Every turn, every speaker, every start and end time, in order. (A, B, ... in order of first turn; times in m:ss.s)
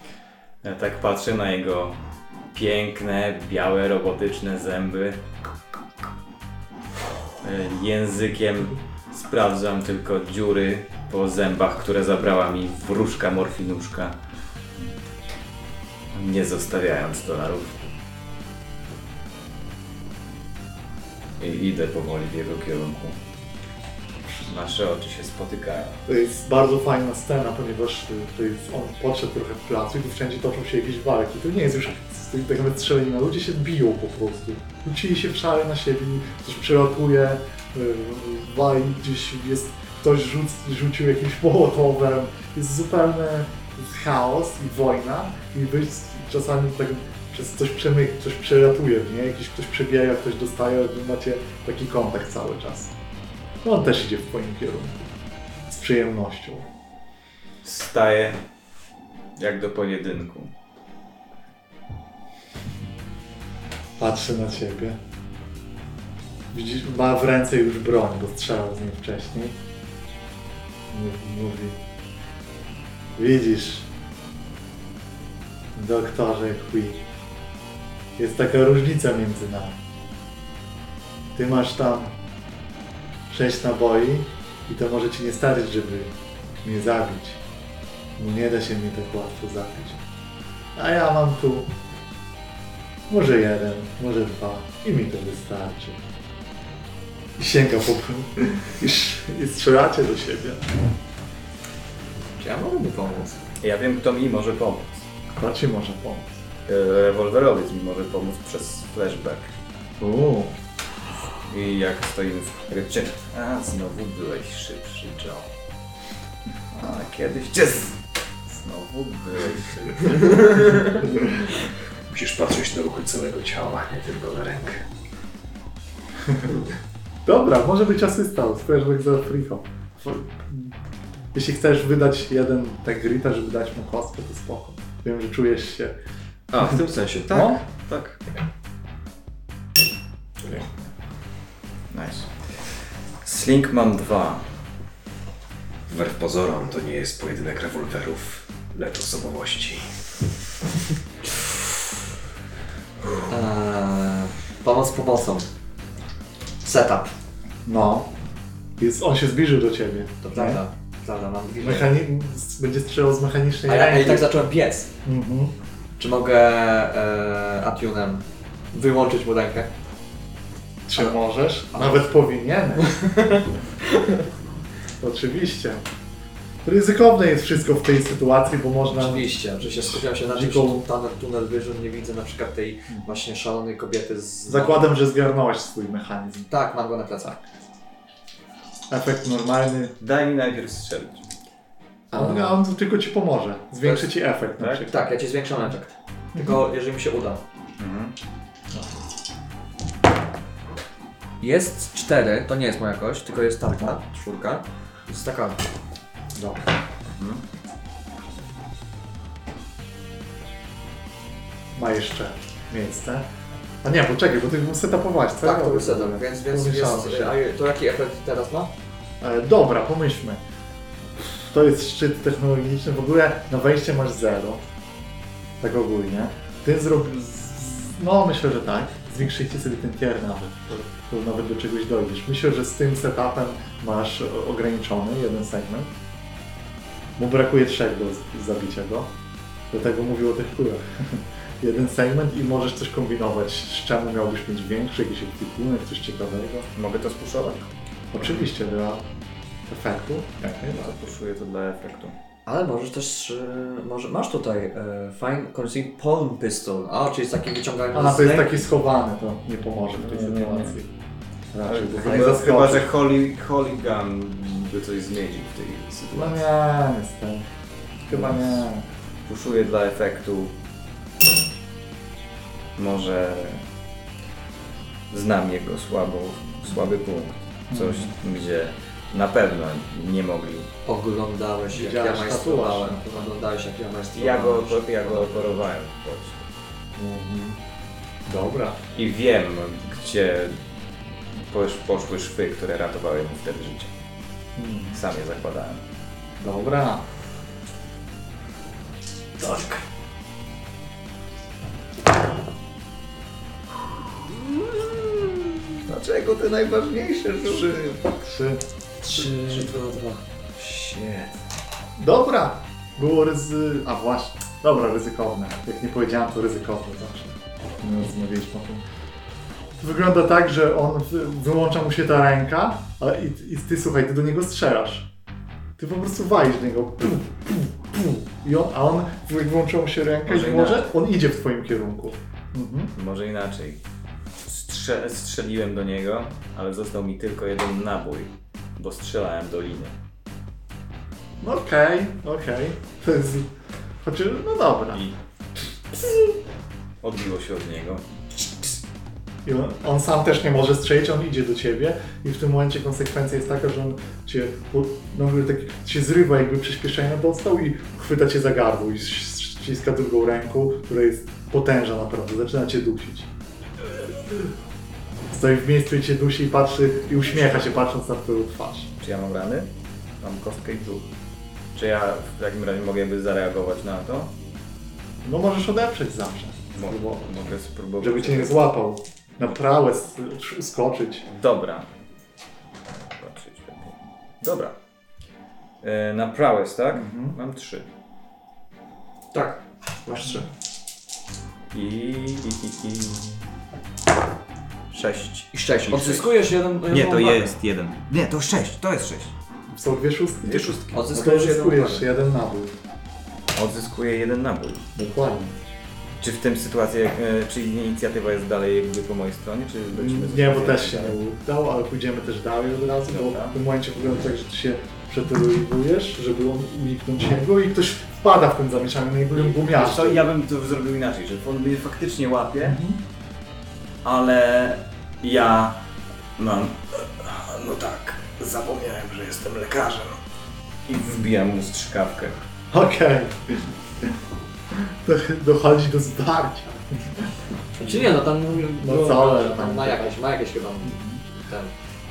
0:00.6-0:02.0 A
0:02.5-0:05.2 A
0:07.4-0:14.2 A
0:16.1-0:17.9 A
0:21.4-0:23.2 A
0:24.4-0:26.0 A
0:26.1-0:52.9 B
0:53.6-0:55.0 B
0:55.7-0:56.6 B
0:57.6-0:58.4 A
0:59.4-1:00.5 A
1:04.0-1:05.0 B
1:06.5-1:09.6 B
1:10.9-1:11.8 B
1:13.1-1:13.9 B
1:15.7-1:17.0 B
1:18.2-1:19.8 B
1:21.3-1:22.2 B
1:23.3-1:27.4 B
1:28.2-1:30.0 B
1:30.7-1:31.8 B
1:33.1-1:36.0 B
1:37.4-1:40.8 B
1:42.4-1:43.4 C
1:43.6-1:45.0 A
1:45.4-1:46.4 B
1:46.7-1:49.5 A
1:50.0-1:50.5 B
1:51.3-1:55.5 A
1:56.8-2:01.0 A
2:00.9-2:01.2 B
2:02.1-2:04.8 D
2:06.2-2:06.6 B
2:07.2-2:10.8 B
2:11.3-2:16.0 B
2:16.5-2:18.2 D
2:17.3-2:17.6 B
2:20.4-2:20.9 B
2:21.9-2:24.4 A
2:25.9-2:29.9 D
2:33.3-2:35.4 C
2:36.6-2:37.1 C
2:37.6-2:38.1 B
2:38.8-2:40.6 B
2:40.2-2:41.9 C
2:41.6-2:44.3 B
2:43.6-2:44.9 C
2:45.0-2:45.5 B
2:46.0-2:49.7 C
2:50.8-2:53.0 B
2:51.7-2:52.1 C
2:52.8-2:54.2 C
2:55.0-2:55.8 B
2:56.6-3:00.8 B
2:58.9-3:04.9 C
3:04.5-3:06.5 B
3:06.5-3:07.4 C
3:08.9-3:09.9 B
3:10.0-3:11.2 A
3:12.1-3:14.9 B
3:13.8-3:14.1 C
3:14.6-3:14.9 A
3:14.8-3:17.4 C
3:16.3-3:16.6 B
3:17.8-3:18.1 A
3:21.4-3:25.6 C
3:26.4-3:26.7 B
3:27.2-3:27.4 A
3:31.8-3:33.2 B
3:33.8-3:37.4 B
3:35.4-3:38.7 C
3:39.2-3:40.4 B
3:41.3-3:44.6 B
3:45.6-3:55.9 B
3:57.2-3:59.1 B
3:59.7-4:06.7 B
4:06.8-4:07.7 A
4:08.1-4:09.0 B
4:09.7-4:10.9 B
4:10.6-4:12.1 A
4:12.4-4:18.7 C
4:17.9-4:20.9 B
4:20.0-4:20.7 A
4:21.5-4:22.9 B
4:21.6-4:26.4 A
4:22.0-4:22.5 C
4:26.1-4:27.4 B
4:28.1-4:28.8 B
4:28.1-4:28.4 A
4:29.2-4:30.5 A
4:32.8-4:33.6 A
4:35.1-4:40.7 A
4:37.7-4:38.1 B
4:40.8-4:45.6 C
4:41.7-4:43.3 B
4:44.1-4:46.5 A
4:47.0-4:47.6 B
4:48.2-4:48.8 B
4:48.9-4:50.6 A
4:51.3-4:53.9 A
4:54.6-4:55.0 B
4:54.9-4:55.8 A
4:56.4-4:57.0 B
4:59.4-4:59.8 A
5:04.6-5:08.0 A
5:07.4-5:08.6 B
5:09.0-5:10.2 C
5:10.6-5:11.3 A
5:12.0-5:18.8 B
5:19.8-5:25.1 B
5:25.8-5:32.9 B
5:30.2-5:30.9 A
5:33.0-5:33.8 A
5:34.4-5:39.9 A
5:41.4-5:43.5 B
5:44.0-5:45.0 B
5:47.0-5:48.0 A
5:49.4-6:03.3 B
6:03.9-6:04.5 B
6:05.3-6:08.9 B
6:09.0-6:09.7 A
6:10.2-6:11.1 A
6:11.7-6:14.3 A
6:15.2-6:21.3 B
6:16.7-6:18.6 A
6:21.3-6:21.9 A
6:23.1-6:24.7 A
6:25.8-6:27.8 A
6:26.9-6:27.4 B
6:29.3-6:30.5 C
6:31.7-6:33.2 A
6:34.9-6:36.4 A
6:35.5-6:37.6 C
6:36.9-6:39.3 A
6:39.7-6:42.8 B
6:40.4-6:41.0 D
6:40.9-6:42.0 C
6:43.5-6:44.9 A
6:45.0-6:45.5 B
6:46.2-6:51.2 A
6:49.9-7:00.3 B
6:53.1-6:53.6 A
6:59.3-7:02.8 A
7:02.6-7:03.0 B
7:04.0-7:05.8 A
7:06.4-7:10.2 A
7:10.8-7:12.4 A
7:12.7-7:14.2 B
7:14.7-7:17.4 B
7:17.8-7:21.7 C
7:18.6-7:20.2 B
7:20.8-7:21.2 B